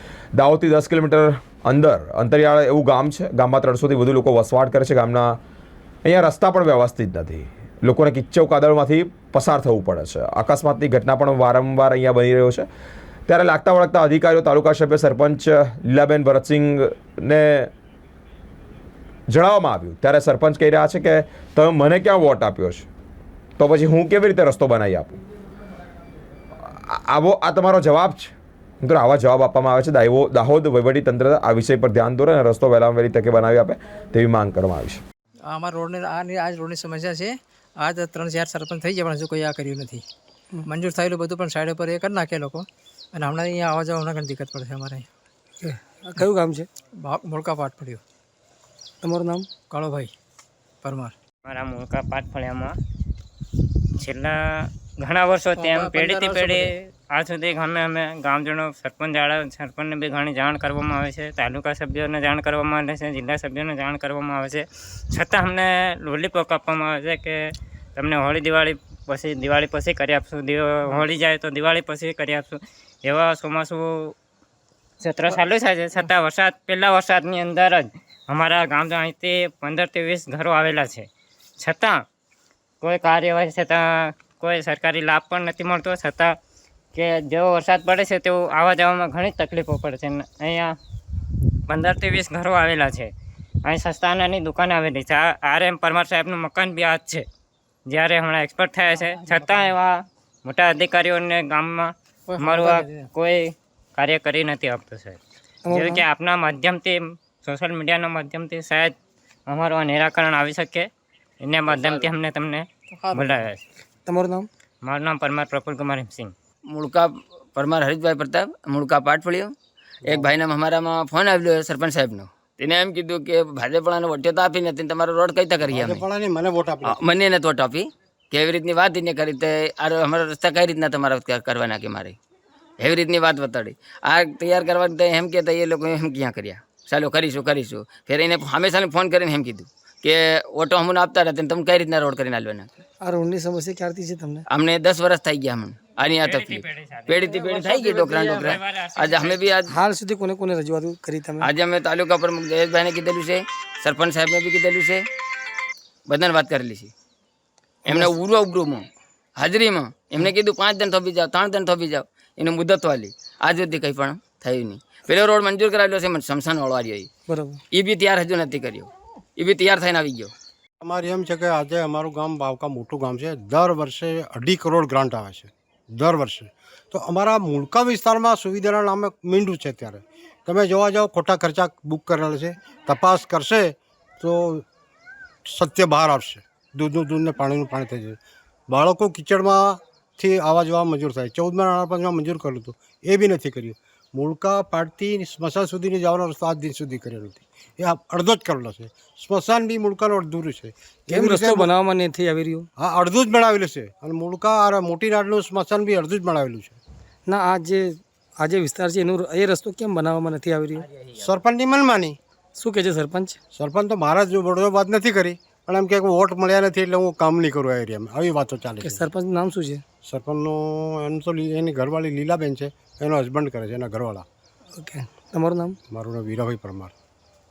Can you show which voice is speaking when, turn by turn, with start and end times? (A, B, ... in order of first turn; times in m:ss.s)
0:00.4-0:05.4 A
0:06.0-0:12.6 A
0:13.3-0:17.7 A
0:19.3-0:22.9 A
0:23.6-0:25.2 A
0:26.7-0:35.0 A
0:35.5-0:40.0 B
0:40.6-0:45.1 B
0:45.6-0:46.7 C
0:47.0-0:48.0 B
0:49.0-0:49.5 C
0:49.6-0:50.1 B
0:50.8-0:51.1 B
0:51.4-0:52.7 D
0:54.0-1:07.4 D
0:55.6-0:56.7 B
1:08.0-1:14.1 D
1:15.0-1:21.1 D
1:21.6-1:22.0 D
1:22.8-1:26.3 D
1:26.9-1:30.7 D
1:31.7-1:33.1 D
1:33.6-1:37.2 D
1:37.9-1:45.2 D
1:39.0-1:39.7 B
1:42.3-1:43.1 B
1:45.6-1:46.0 C
1:45.7-1:48.9 D
1:49.5-1:50.9 D
1:51.4-1:53.6 D
1:51.7-1:52.1 E
1:52.9-1:53.4 B
1:54.0-1:54.5 C
1:54.8-1:56.3 D
1:56.7-1:59.5 E
2:00.0-2:00.3 F
2:00.1-2:06.0 E
2:05.6-2:07.0 F
2:06.8-2:12.2 E
2:12.8-2:22.7 E
2:23.0-2:24.4 C
2:24.5-2:29.8 E
2:26.2-2:29.6 D
2:29.7-2:31.4 C
2:31.4-2:35.0 E
2:36.1-2:36.9 E
2:37.8-2:47.1 E
2:47.3-2:47.6 C
2:47.7-2:50.3 E
2:50.8-3:04.6 F
3:05.4-3:08.2 F
3:08.7-3:21.7 F
3:21.1-3:22.7 C
3:22.8-3:26.8 F
3:27.3-3:30.8 C
3:31.1-3:32.2 F
3:32.6-3:33.4 C
3:33.5-3:39.0 F
3:38.8-3:39.8 C
3:40.0-3:44.2 F
3:44.8-3:45.8 C
3:45.9-3:46.9 F